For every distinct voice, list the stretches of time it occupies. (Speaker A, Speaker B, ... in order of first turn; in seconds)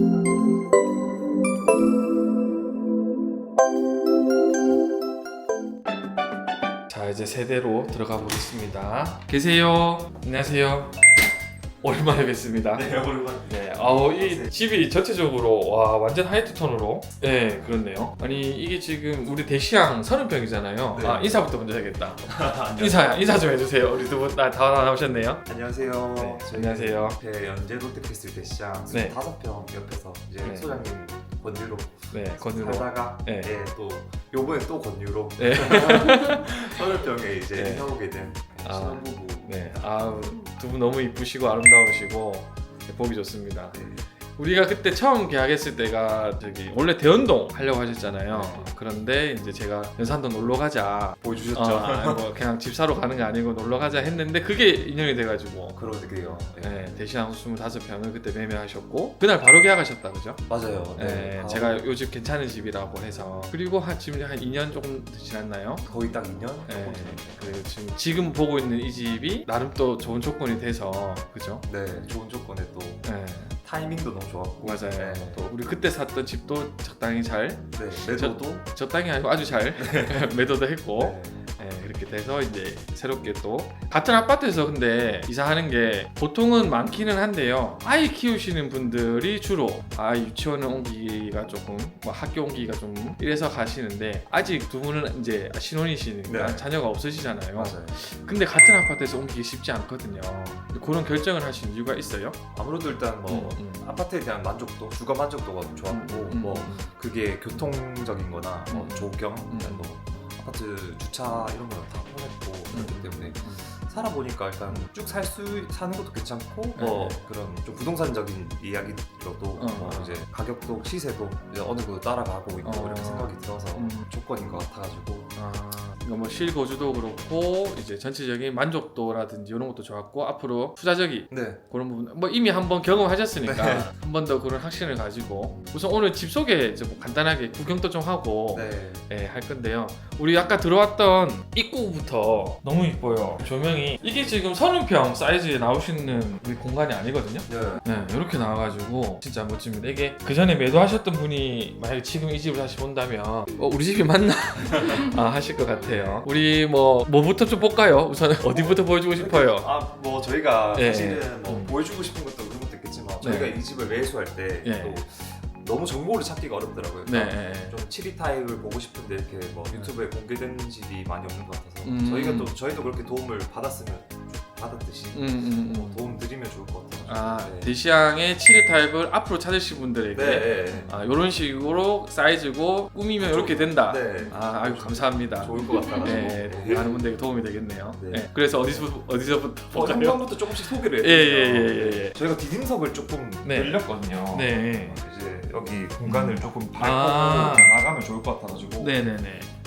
Speaker A: 6.9-11.0, 11.8-12.9, 13.4-25.5, 26.1-27.2, 28.9-29.2, 30.4-30.9, 32.1-33.5, 35.4-36.6, 37.5-37.9, 38.6-43.8, 44.4-65.8, 66.7-71.7, 73.0-73.5, 74.6-102.4, 103.3-103.8, 105.9-106.9, 108.7-109.9, 112.7-113.7, 116.8-117.3, 119.6-120.2, 122.6-124.1, 125.3-159.7, 160.7-161.8, 163.2-163.6, 164.6-165.0, 167.1-167.8, 171.8-172.5, 175.1-176.1, 177.1-192.2, 193.4-195.0, 196.0-197.7, 198.8-199.6
Speaker B: 12.7-14.5, 20.9-21.4, 22.2-23.4, 25.4-39.6, 43.7-44.0, 48.3-48.7, 51.2-52.3, 55.7-57.0, 60.5-61.8, 65.8-67.6, 71.7-75.5, 77.7-78.7, 79.8-80.3, 81.0-81.4, 96.3-96.7, 97.5-98.0, 102.5-125.3, 131.3-131.6, 133.4-133.9, 138.5-139.1, 147.5-147.9, 154.7-155.0, 155.8-156.3, 158.5-177.7, 180.1-180.9, 183.2-187.0, 188.0-188.9, 189.7-199.0